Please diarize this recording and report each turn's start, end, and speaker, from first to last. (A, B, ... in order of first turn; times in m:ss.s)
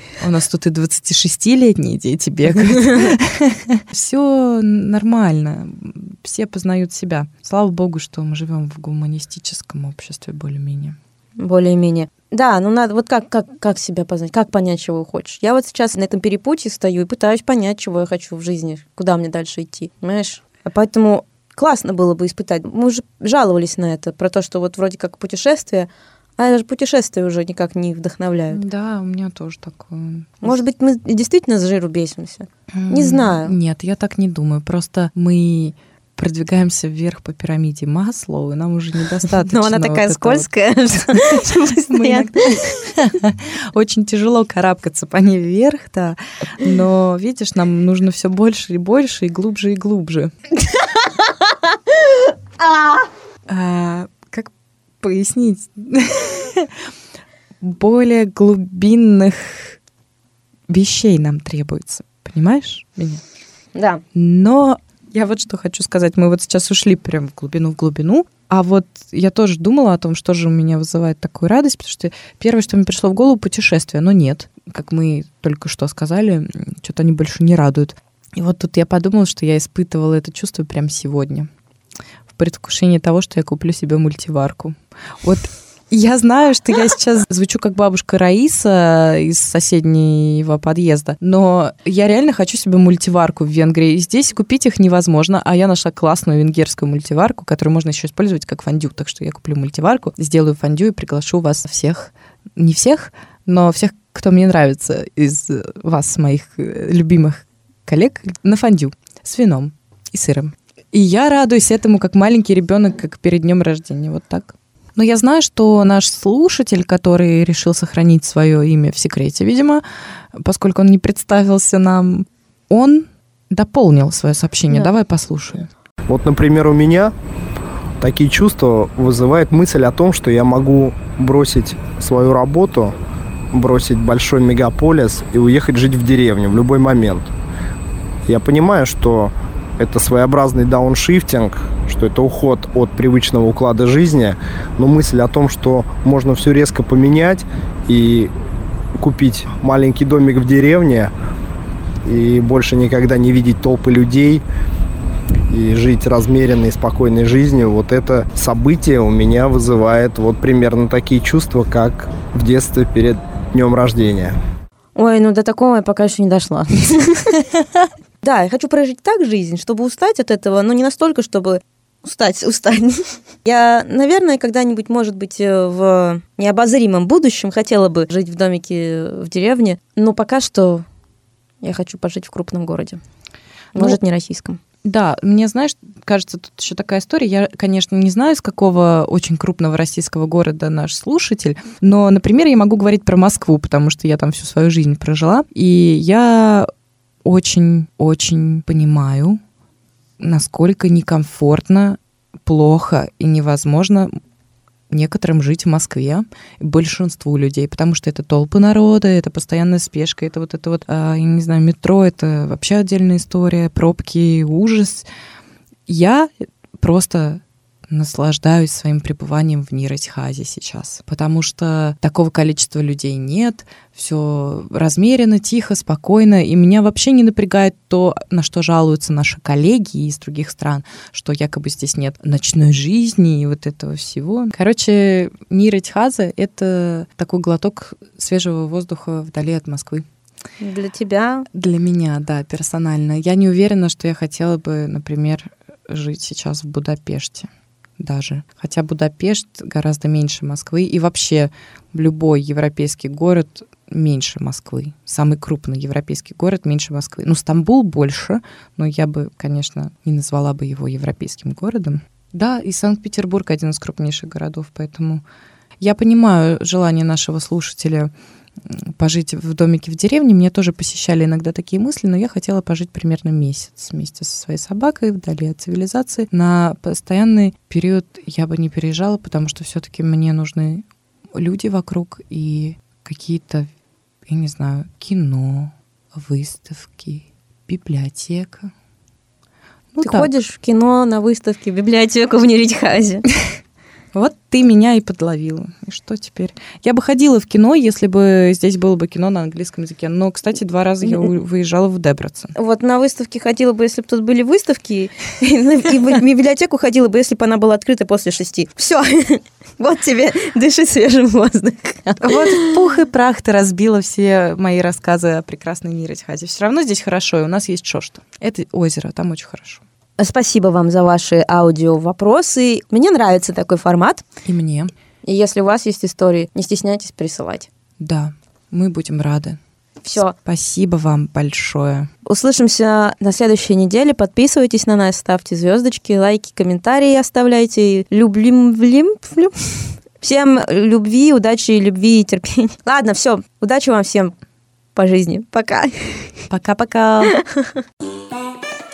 0:00.2-0:11.0 A
0:02.7-0:03.1 B
0:11.4-0:28.6 B
0:28.5-0:30.5 A
0:30.4-0:33.5 B
0:32.7-0:40.5 A
0:39.3-0:42.8 B
0:41.1-0:50.3 A
0:52.6-0:53.0 B
0:53.5-0:56.7 A
0:57.6-0:59.8 A
1:00.7-1:03.2 A
1:03.7-1:04.0 B
1:04.1-1:21.5 A
1:22.3-2:05.7 A
2:06.1-2:07.1 C
2:08.0-2:12.9 C
2:13.5-2:17.3 C
2:18.2-2:28.3 C
2:29.0-2:31.1 C
2:32.0-2:34.4 C
2:35.5-2:44.4 C
2:44.9-2:47.4 B
2:48.2-3:00.8 B
3:01.6-3:03.0 B
3:03.7-3:04.6 B
3:04.8-3:16.7 A
3:17.2-3:19.4 A
3:20.2-3:24.1 A
3:24.9-3:35.1 A
3:35.9-4:00.0 A
4:00.6-4:01.5 B
4:01.5-4:25.2 A
4:25.8-4:28.1 A
4:28.6-4:40.8 A
4:41.3-4:43.7 A
4:44.2-4:48.7 A
4:49.9-4:50.3 A
4:50.0-4:53.2 B
4:54.1-5:02.5 A
5:02.5-5:12.8 B
5:12.2-5:19.8 A
5:20.2-5:24.2 B
5:24.4-5:24.9 A
5:25.2-5:27.7 B
5:28.0-5:29.6 A
5:30.0-5:30.3 B
5:30.3-5:32.1 A
5:32.2-5:44.3 B
5:44.9-5:46.4 B
5:46.5-5:47.4 A
5:47.2-5:47.8 B